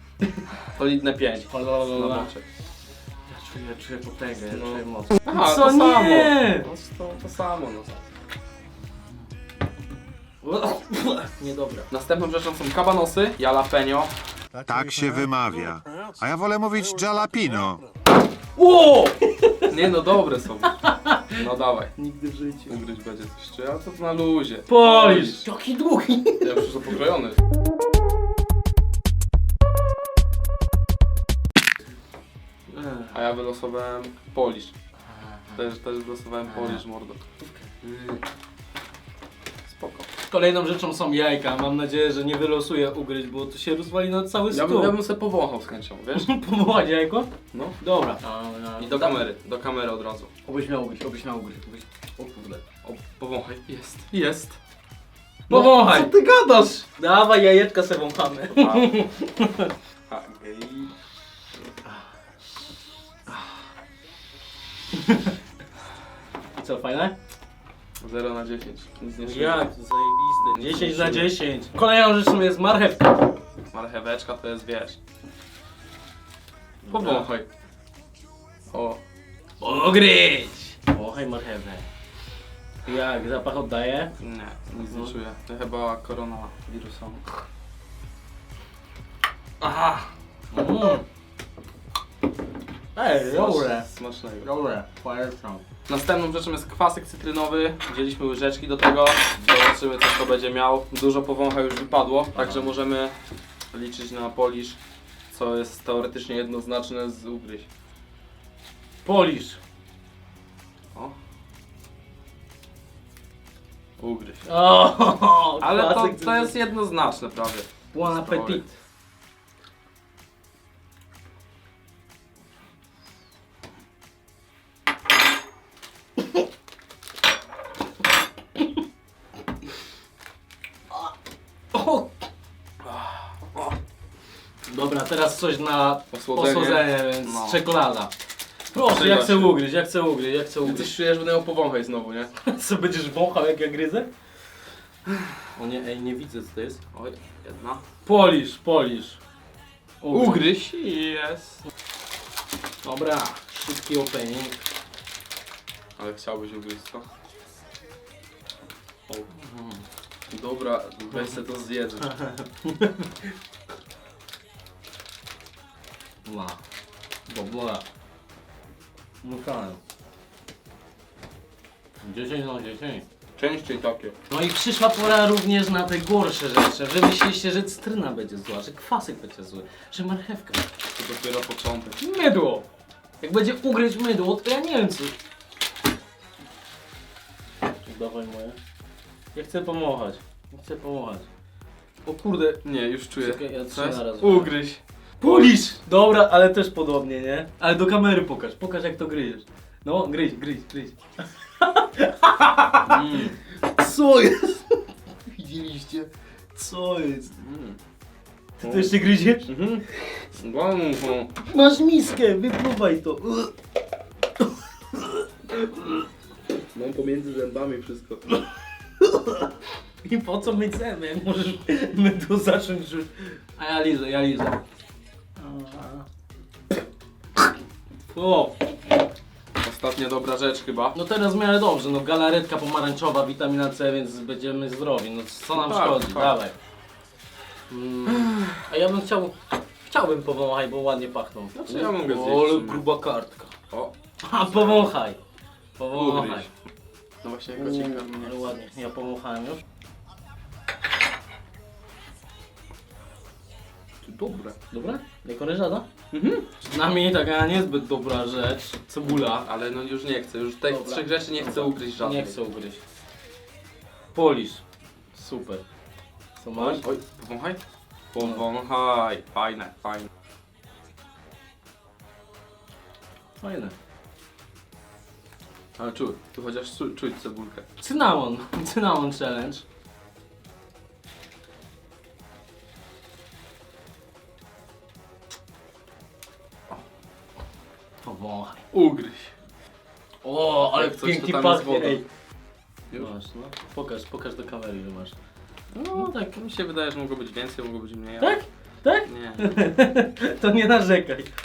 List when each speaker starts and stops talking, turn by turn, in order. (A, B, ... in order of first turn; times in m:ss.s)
0:00.7-0:02.4 A
0:01.5-0:02.3 B
0:03.3-0:06.7 B
0:04.5-0:08.0 A
0:10.4-0:11.9 B
0:11.9-0:14.1 A
0:14.6-0:17.8 C
0:18.6-0:19.9 B
0:19.7-0:21.9 A
0:20.8-0:21.4 B
0:22.0-0:22.8 B
0:22.7-0:25.4 A
0:24.7-0:26.7 B
0:26.4-0:27.4 A
0:32.7-0:33.2 B
0:33.1-0:34.7 A
0:35.1-0:35.6 B
0:35.6-0:37.2 A
0:36.5-0:36.8 B
0:37.8-0:38.2 A
0:39.7-0:40.1 A
0:40.3-0:44.9 B
0:44.5-0:46.3 A
0:46.2-0:49.2 B
0:48.8-0:50.3 A
0:50.5-0:52.6 B
0:52.8-0:54.6 A
0:55.5-0:56.8 A
0:55.5-0:56.1 B
0:56.8-0:59.7 B
0:58.6-0:59.0 A
1:00.1-1:00.9 A
1:04.9-1:05.3 B
1:06.6-1:07.2 B
1:08.0-1:09.6 A
1:09.2-1:13.2 B
1:10.4-1:11.4 A
1:13.7-1:15.0 A
1:16.8-1:17.3 B
1:16.9-1:17.5 A
1:18.7-1:19.0 A
1:19.6-1:21.9 B
1:22.9-1:24.1 B
1:24.2-1:27.2 A
1:29.6-1:30.0 A
1:30.5-1:31.0 B
1:33.0-1:33.9 B
1:33.3-1:34.5 A
1:34.4-1:35.6 B
1:35.9-1:43.2 A
1:42.4-1:42.7 B
1:43.7-1:44.8 A
1:45.3-1:47.7 A
1:49.0-1:49.6 B
1:54.0-1:54.5 A
1:54.4-1:56.5 B
1:55.6-1:58.6 A
1:57.9-1:58.7 B
2:11.7-2:12.1 B
2:12.8-2:13.7 A
2:14.7-2:18.1 B
2:16.1-2:17.6 A
2:18.7-2:20.9 B
2:18.8-2:19.6 A
2:20.6-2:22.3 A
2:22.4-2:24.1 B
2:25.5-2:26.8 B
2:26.9-2:27.8 A
2:28.0-2:29.2 B
2:30.0-2:30.5 B
2:30.1-2:31.6 A
2:32.8-2:34.6 B
2:36.0-2:37.1 A
2:39.3-2:39.8 B
2:40.3-2:42.1 A
2:41.1-2:41.4 B
2:42.0-2:43.3 B
2:46.2-2:46.6 B
2:47.3-2:47.8 B
2:49.2-2:49.8 B
2:52.0-2:53.0 B
2:53.4-2:54.2 A
2:54.3-3:00.7 B
3:01.0-3:02.0 A
3:02.0-3:02.6 B
3:03.2-3:05.1 B
3:07.8-3:08.6 B
3:09.3-3:11.3 B
3:12.0-3:15.5 A
3:13.2-3:14.6 B
3:15.2-3:21.0 B
3:21.6-3:24.7 B
3:22.9-3:23.4 A
3:25.3-3:27.3 B
3:27.4-3:27.8 A
3:28.6-3:29.5 B
3:28.6-3:28.9 A
3:29.4-3:31.3 A
3:31.4-3:33.5 B
3:34.4-3:36.0 B
3:36.7-3:38.2 A
3:39.0-3:39.5 B
3:40.0-3:44.6 B
3:45.4-3:46.0 B
3:48.1-3:48.6 B
3:49.6-3:51.0 A
3:50.9-3:56.6 B
3:55.5-3:56.4 A
3:57.7-4:03.5 B
3:58.1-3:58.6 A
4:01.6-4:02.9 A
4:04.2-4:05.2 B
4:04.5-4:04.9 A
4:05.8-4:06.5 B
4:05.9-4:06.5 A
4:07.2-4:08.5 A
4:07.5-4:09.6 B
4:14.0-4:14.6 A
4:14.7-4:15.9 B
4:16.1-4:16.4 A
4:16.6-4:19.5 B
4:19.1-4:22.4 A
4:20.7-4:22.8 B
4:24.1-4:24.6 B
4:25.1-4:25.6 B
4:26.4-4:26.8 B
4:26.6-4:27.6 A
4:28.1-4:30.1 A
4:33.4-4:33.7 B
4:35.8-4:37.7 A
4:37.8-4:39.6 B
4:48.0-4:48.6 B
4:48.7-4:49.3 A
4:50.2-4:52.0 B
4:50.7-4:52.0 A
4:53.0-4:55.2 B
4:55.8-4:58.4 A
4:55.8-4:56.4 B
4:58.2-5:01.3 B
4:59.1-4:59.6 A